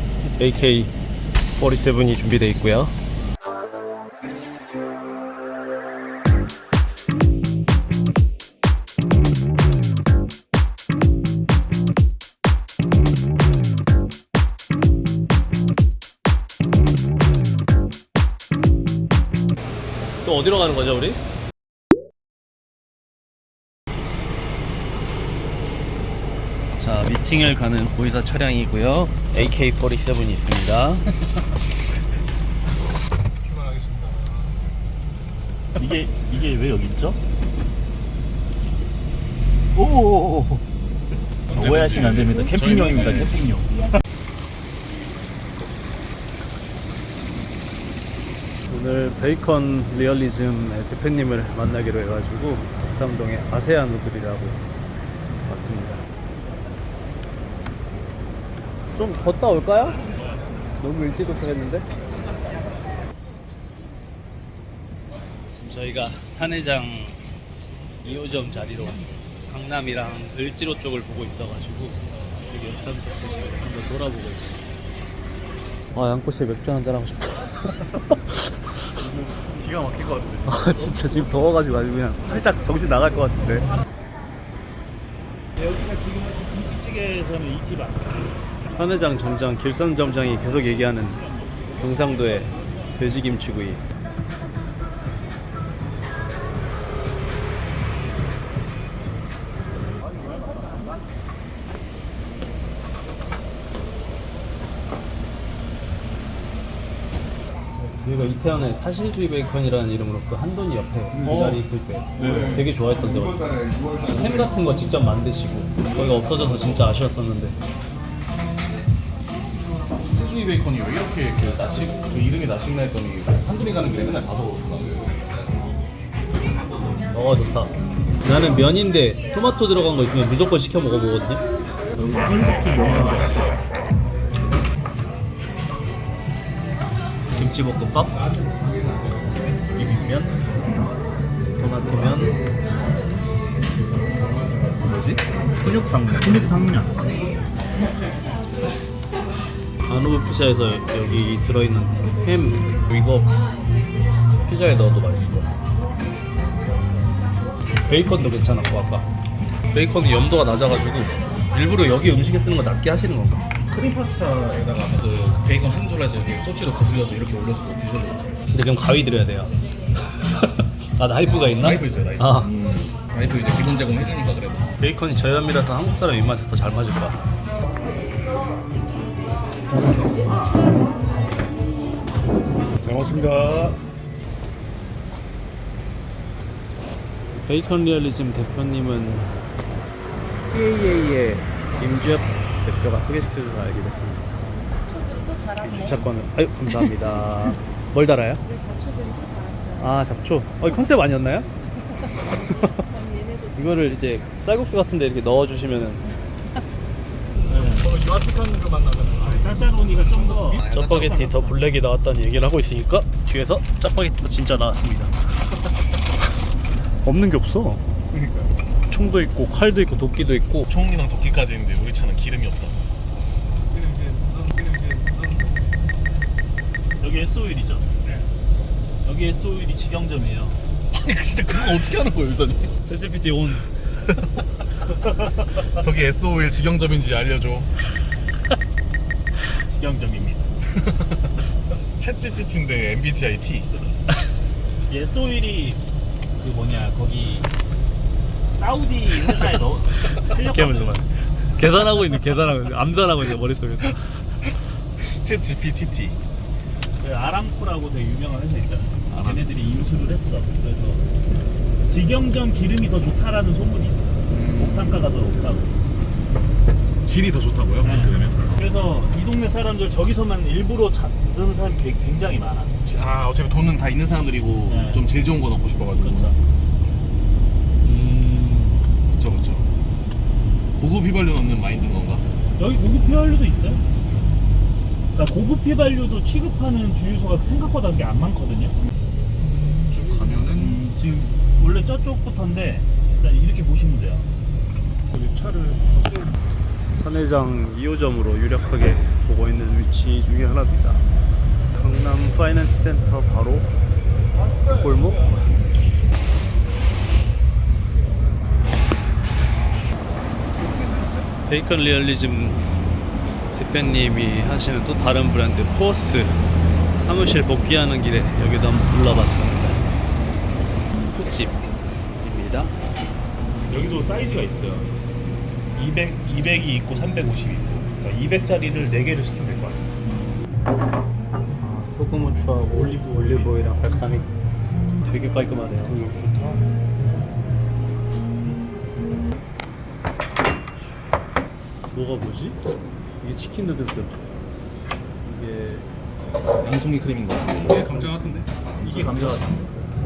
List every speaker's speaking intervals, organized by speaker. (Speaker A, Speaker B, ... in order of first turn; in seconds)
Speaker A: 0.4-0.9, 1.6-2.9, 20.2-21.2, 26.8-31.1, 48.7-54.6, 55.5-56.0, 58.9-60.1, 60.8-61.9, 65.5-67.2, 68.0-74.6, 75.9-78.5, 80.4-83.7, 88.7-93.8, 107.8-113.4, 114.0-117.6, 127.1-131.4, 137.3-138.2, 141.6-142.4, 149.8-153.3, 154.4-155.5, 157.8-159.1, 159.7-163.5, 168.5-169.5, 170.1-172.5, 174.8-177.2, 187.4-189.4, 190.4-194.2, 195.6-198.4, 199.8-201.5, 203.6-206.0, 210.7-215.2, 217.0-217.8, 218.9-220.7, 232.8-233.9, 250.4-254.2, 277.9-278.8, 296.9-301.1, 301.7-303.7, 304.7-305.4, 311.5-312.7, 313.5-316.4, 316.9-319.8, 320.9-322.8, 331.6-334.3, 335.0-336.1, 341.9-342.6, 343.2-344.2, 345.2-345.9, 348.8-349.4
Speaker B: 35.8-37.2, 39.7-40.6, 41.5-44.0, 79.2-80.4, 85.6-88.3, 132.0-133.4, 139.8-140.5, 144.9-147.0, 182.9-183.2, 207.4-208.0, 209.2-211.4, 227.0-227.9, 229.0-230.6, 239.5-240.5, 244.9-245.8, 246.4-247.5, 248.5-251.0, 257.0-261.1, 261.9-265.7, 267.8-272.7, 274.7-275.1, 276.0-276.4, 282.6-283.8, 285.1-288.8, 290.4-294.3, 323.7-324.9, 325.8-329.9, 332.7-333.5, 336.0-336.6, 348.8-349.7
Speaker C: 41.5-43.4, 111.2-111.6, 112.2-114.5, 120.1-125.2, 163.7-168.4, 171.3-174.7, 207.5-209.4, 210.1-211.1, 218.1-218.5, 220.7-222.8, 230.9-232.7, 235.7-237.7, 240.7-241.0, 242.0-243.7, 255.0-256.2, 259.1-259.5, 264.3-265.0, 267.1-268.6, 272.8-276.3, 279.1-279.7, 280.8-282.2, 289.4-290.8, 346.6-348.5
Speaker D: 194.9-196.0, 198.5-199.8, 202.9-203.5